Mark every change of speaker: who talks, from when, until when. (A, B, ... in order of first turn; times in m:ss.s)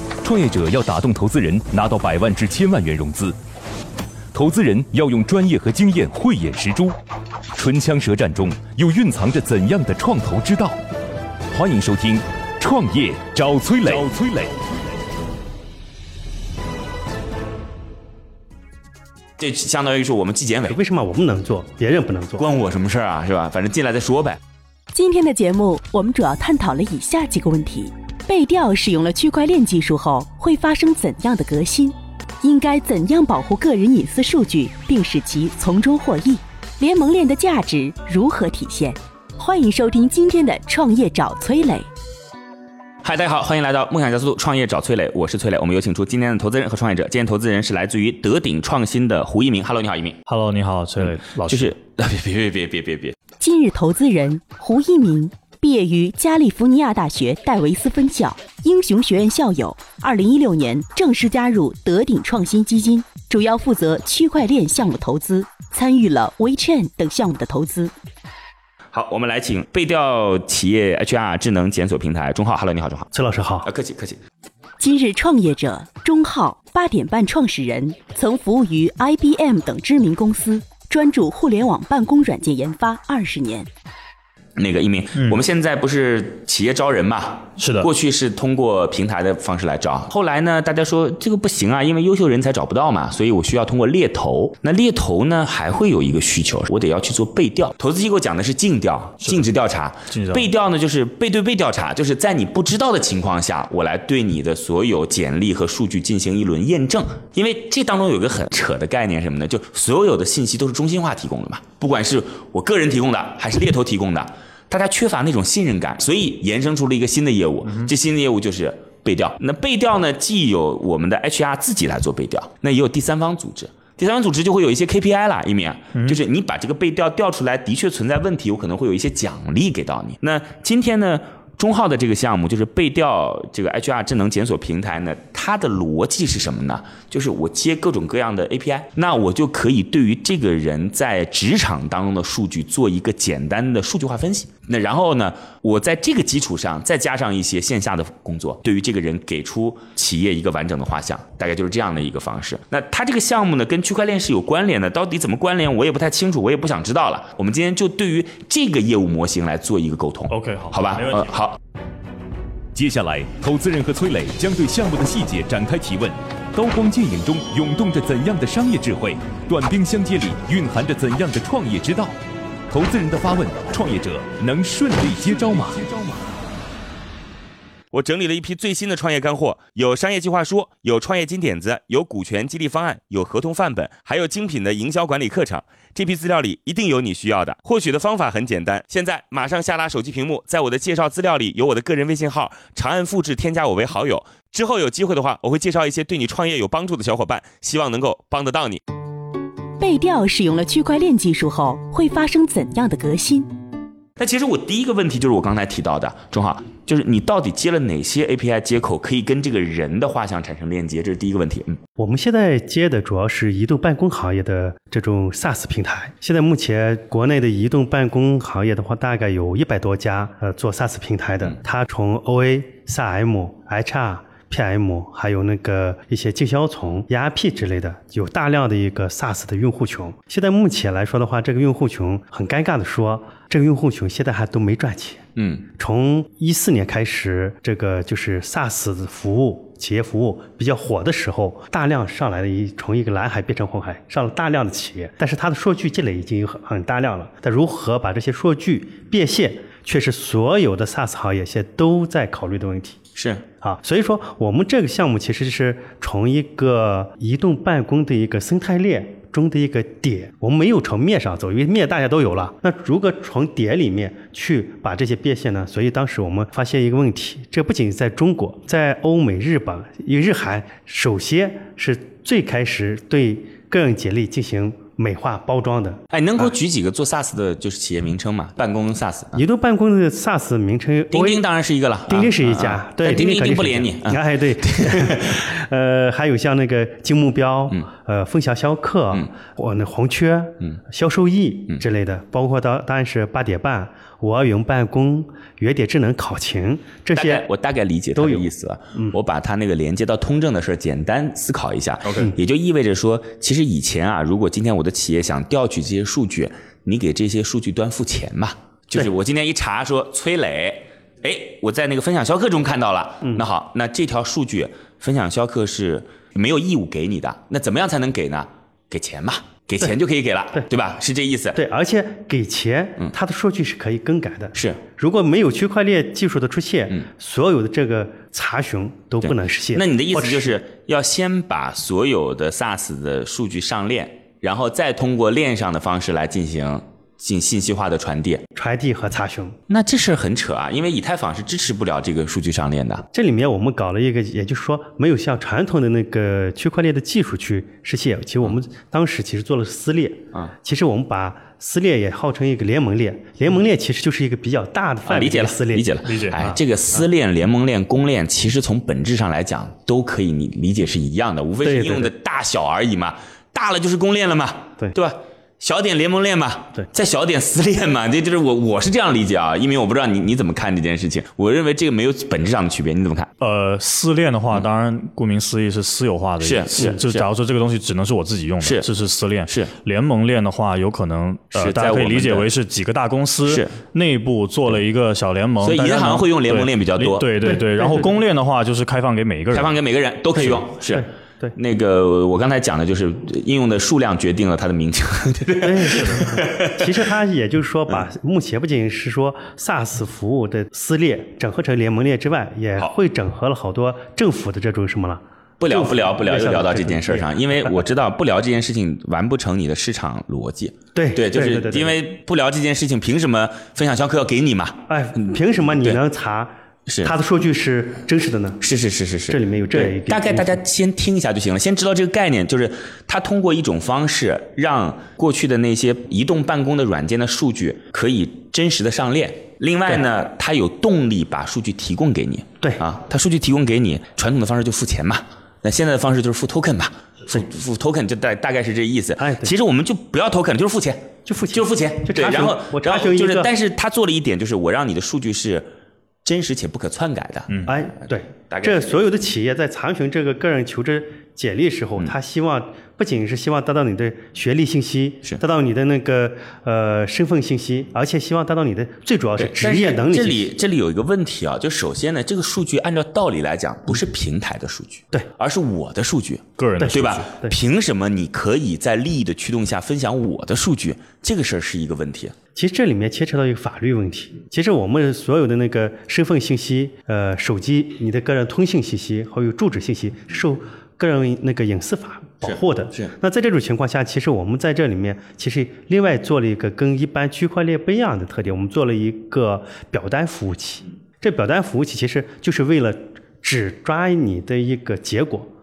0:00.2-0:03.4 A
0:04.3-0:07.0 A
0:07.6-0:10.8 A
0:11.5-0:14.5 A
0:19.4-0:20.8 B
0:20.6-0:22.5 C
0:22.4-0:24.4 B
0:24.9-0:41.9 D
0:43.0-0:50.2 B
0:50.3-0:51.8 E
0:51.0-0:53.2 B
0:53.4-1:07.9 D
1:08.9-1:13.1 B
1:13.1-1:13.7 C
1:13.6-1:14.2 B
1:14.8-1:23.7 D
1:24.6-2:41.6 B
1:27.6-1:27.9 E
1:39.2-1:39.5 E
1:40.1-1:40.5 E
2:06.0-2:06.2 E
2:40.3-2:41.3 E
2:42.7-2:52.2 A
2:52.7-2:56.0 A
2:57.9-3:18.8 B
3:19.8-3:23.5 D
3:24.2-3:31.8 B
3:32.0-4:13.0 C
3:55.4-3:55.6 B
4:13.2-4:13.4 B
4:13.6-4:36.0 C
4:36.1-4:39.4 B
4:39.4-4:41.4 C
4:41.1-4:45.4 B
4:42.1-4:57.4 C
4:57.2-5:21.6 B
4:58.2-4:59.2 C
5:21.6-5:30.6 C
5:29.2-5:38.4 B
5:38.6-5:39.6 C
5:39.7-5:43.0 B
5:43.1-5:56.5 C
5:55.1-6:13.3 B
5:56.0-5:56.4 E
6:01.6-6:02.1 C
6:13.4-6:29.8 E
6:16.4-6:17.3 B
6:21.6-6:22.5 B
6:23.5-6:23.7 B
6:25.6-6:27.4 B
6:27.4-6:28.1 C
6:29.5-6:37.0 B
6:30.9-6:31.5 C
6:35.6-6:47.9 C
6:45.6-6:54.8 B
6:51.0-6:52.0 C
6:54.9-6:56.5 C
6:56.9-6:57.1 B
6:57.0-6:58.6 C
6:58.6-7:25.7 B
6:59.3-7:00.6 C
7:19.2-7:19.5 C
7:21.3-7:23.5 C
7:26.2-7:28.9 B
7:27.7-7:40.5 C
7:39.4-7:52.4 B
7:46.6-7:47.3 E
7:46.8-7:47.6 C
7:52.6-8:15.5 C
8:02.4-8:03.1 B